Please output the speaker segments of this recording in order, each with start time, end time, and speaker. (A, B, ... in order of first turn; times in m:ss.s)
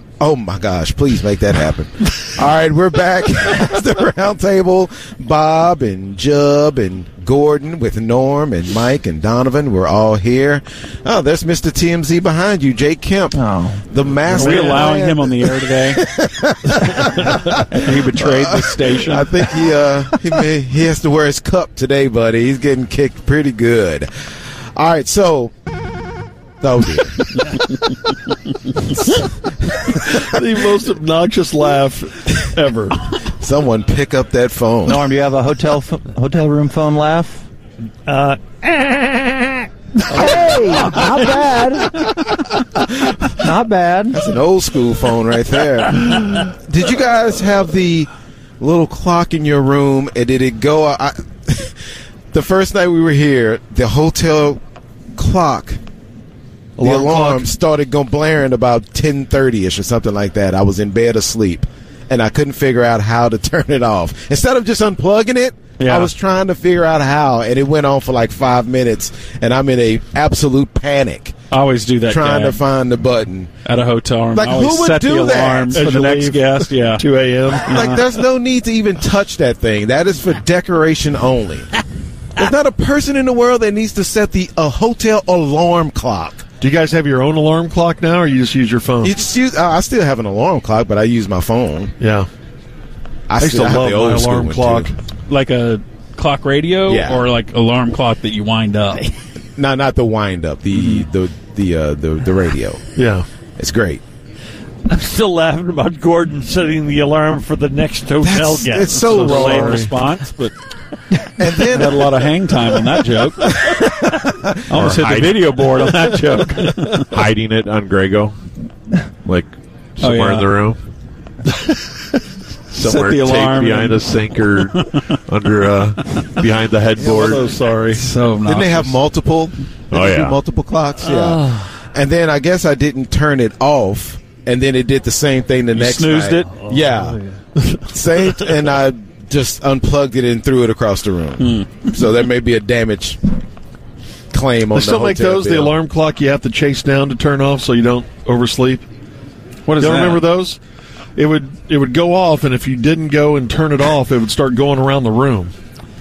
0:00.2-0:24.1 A
0:13.3-0:13.8 B
0:14.3-0:16.0 C
0:14.5-0:14.7 D
0:17.7-0:19.4 C
0:24.8-0:25.5 A
0:26.6-0:27.3 A
0:30.1-0:33.0 D
0:33.4-0:35.0 A
0:34.9-0:37.4 B
0:38.1-0:39.4 E
0:40.1-0:42.0 B
0:43.4-0:44.2 B
0:44.1-0:48.1 A
0:48.6-0:51.7 A
0:52.3-0:54.6 A
0:55.2-0:55.8 A
0:56.8-0:57.5 D
0:56.8-1:11.3 A
1:05.8-1:06.1 C
1:11.5-1:12.6 C
1:12.0-1:13.5 A
1:13.6-1:17.0 C
1:14.3-1:15.8 A
1:15.7-1:17.7 D
1:17.7-1:21.7 A
1:17.7-1:18.0 C
1:22.4-1:26.4 A
1:26.6-1:29.2 D
1:29.0-1:31.9 A
1:32.0-1:32.3 D
1:33.3-1:34.9 A
1:33.4-1:34.9 D
1:35.3-1:39.1 C
1:36.8-1:37.3 A
1:39.6-1:42.8 A
1:40.7-1:41.0 C
1:43.0-1:43.2 D
1:43.6-1:44.0 A
1:44.9-1:49.7 E
1:48.2-1:49.8 A
1:49.1-1:50.5 C
1:49.1-1:49.9 D
1:51.4-1:52.1 A
1:51.7-1:53.6 C
1:54.7-1:57.2 C
1:54.7-1:55.5 F
1:57.1-1:58.3 F
1:59.2-2:00.8 F
2:00.0-2:00.5 C
2:02.7-2:07.5 F
2:02.8-2:04.0 C
2:07.0-2:08.0 D
2:07.9-2:09.0 C
2:08.4-2:17.2 A
2:09.9-2:10.4 F
2:11.1-2:11.4 E
2:15.7-2:16.7 C
2:17.9-2:23.2 A
2:21.4-2:21.8 C
2:24.3-2:25.8 A
2:24.7-2:28.8 D
2:29.7-2:30.2 C
2:29.8-2:30.6 D
2:31.2-2:35.5 D